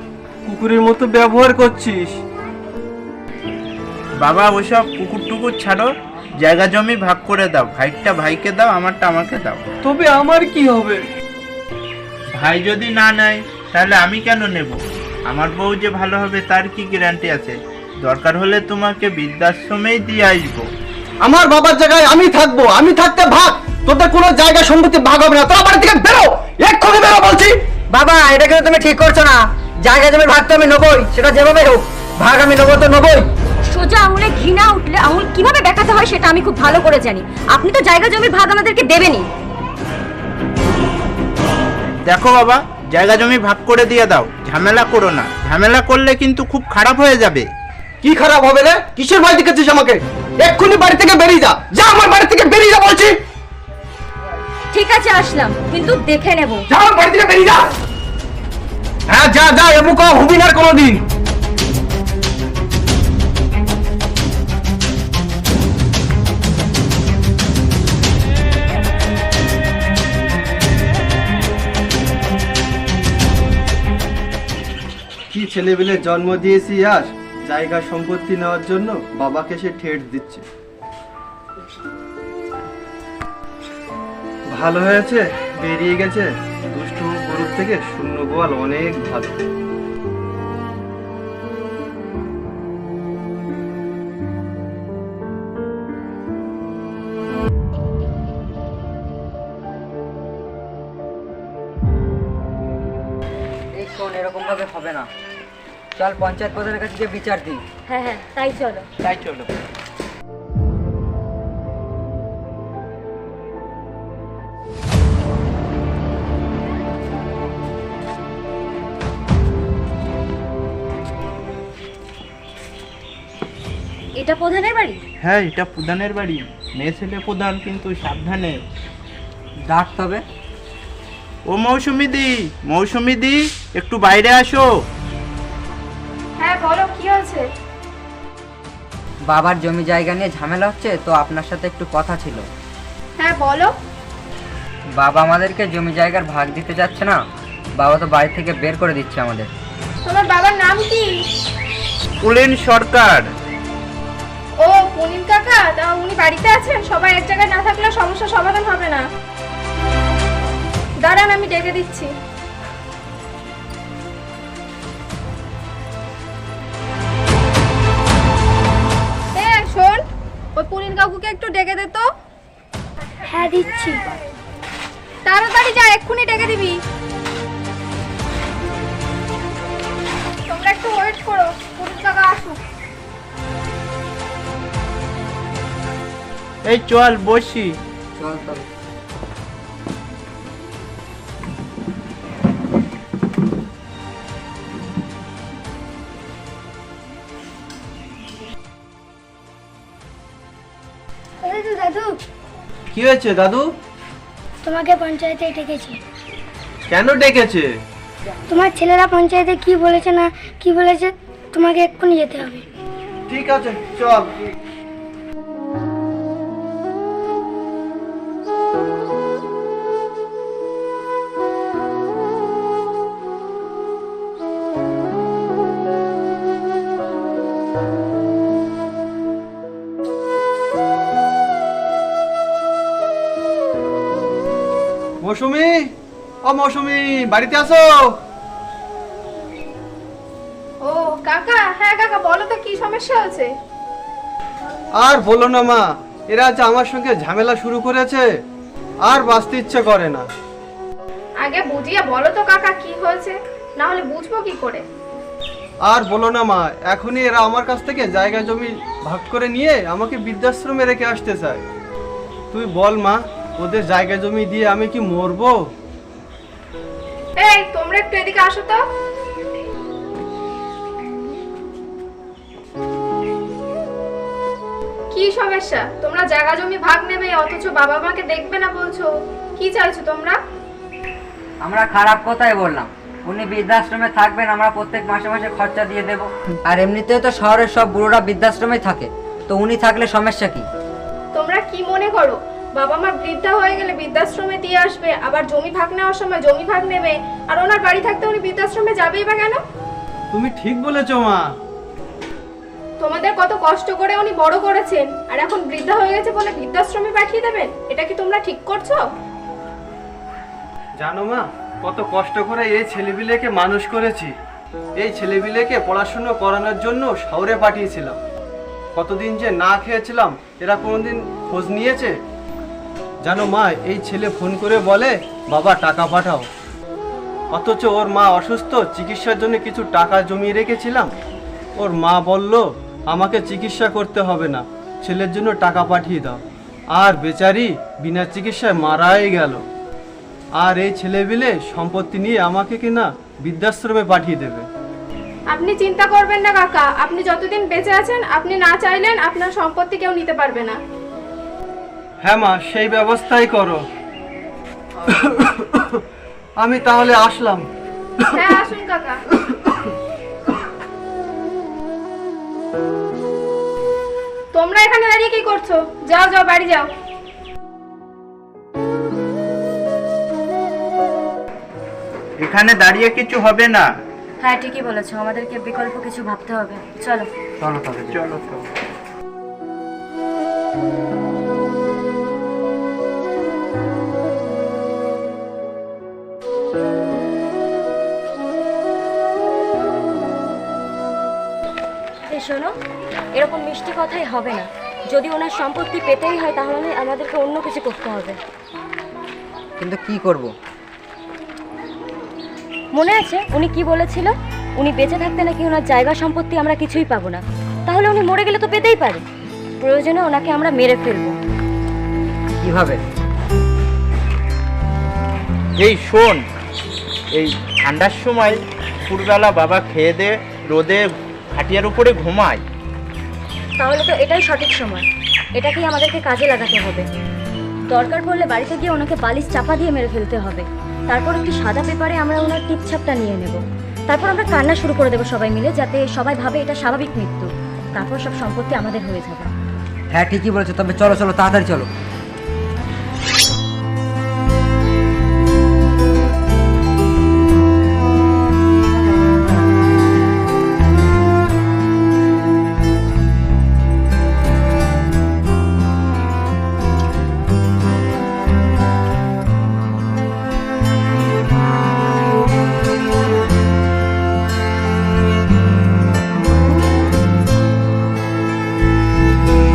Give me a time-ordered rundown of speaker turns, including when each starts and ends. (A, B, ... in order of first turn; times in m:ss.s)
0:00.4-0:02.1 A
0:04.2-0:05.8 B
0:06.4-0:09.6 B
0:09.8-0:11.0 A
0:12.4-0:14.7 B
0:15.3-0:20.6 B
0:21.2-0:22.1 A
0:22.7-0:25.0 A
0:27.9-0:33.3 C
0:33.7-0:39.3 D
0:42.0-0:47.5 B
0:48.0-0:50.5 A
0:54.7-0:56.7 D
0:59.1-0:59.9 A
1:15.3-1:20.4 A
1:24.5-1:29.4 A
1:43.7-1:45.1 C
1:46.0-1:47.6 C
1:47.9-1:48.8 D
2:04.2-2:05.0 D
2:05.2-2:08.6 B
2:09.7-2:10.2 C
2:11.5-2:14.7 B
2:16.4-2:17.4 E
2:19.3-2:22.5 C
2:23.2-2:23.7 E
2:25.0-2:27.2 C
2:27.8-2:29.5 C
2:30.0-2:31.1 E
2:32.2-2:33.3 B
2:34.6-2:39.0 E
2:41.0-2:42.1 E
2:49.3-2:50.0 E
2:50.6-2:52.1 E
2:53.3-2:54.0 F
2:55.2-2:56.8 E
3:00.5-3:02.6 E
3:06.6-3:07.8 B
3:08.2-3:08.6 C
3:21.4-3:22.2 F
3:22.9-3:23.7 A
3:24.6-3:26.0 F
3:26.9-3:27.7 A
3:28.5-3:32.6 F
3:33.3-3:34.3 A
3:55.2-3:55.8 A
3:56.4-3:58.0 A
4:00.8-4:03.5 E
4:05.0-4:08.2 A
4:09.1-4:10.2 A
4:11.4-4:14.8 E
4:15.9-4:21.6 A
4:22.5-4:25.6 A
4:27.4-4:28.8 E
4:35.1-4:40.4 E
4:41.6-4:50.7 C
4:51.3-4:59.6 E
5:00.3-5:01.4 A
5:03.0-5:09.0 E
5:11.0-5:14.3 A
5:15.0-5:18.2 A
5:18.9-5:22.1 A
5:23.2-5:26.5 A
5:27.5-5:31.1 A
5:31.8-5:36.4 A
5:36.9-5:39.6 A
5:40.6-5:44.6 A
5:45.5-5:50.8 E
5:52.2-5:53.8 A
5:55.0-5:56.0 A
5:56.6-5:57.6 A
5:58.4-5:59.2 E
6:04.5-6:06.9 E
6:12.4-6:13.9 B
6:14.4-6:17.3 D
6:17.6-6:18.2 C
6:18.1-6:18.6 B
6:32.3-6:32.7 D
6:33.3-6:38.4 D
6:39.8-6:40.5 C
6:42.9-6:49.2 D
6:49.8-6:51.4 D
6:52.6-6:53.0 C
6:55.8-6:56.4 B
6:57.3-7:02.6 B
7:03.8-7:07.0 D
7:07.9-7:19.5 D
7:20.1-7:21.9 C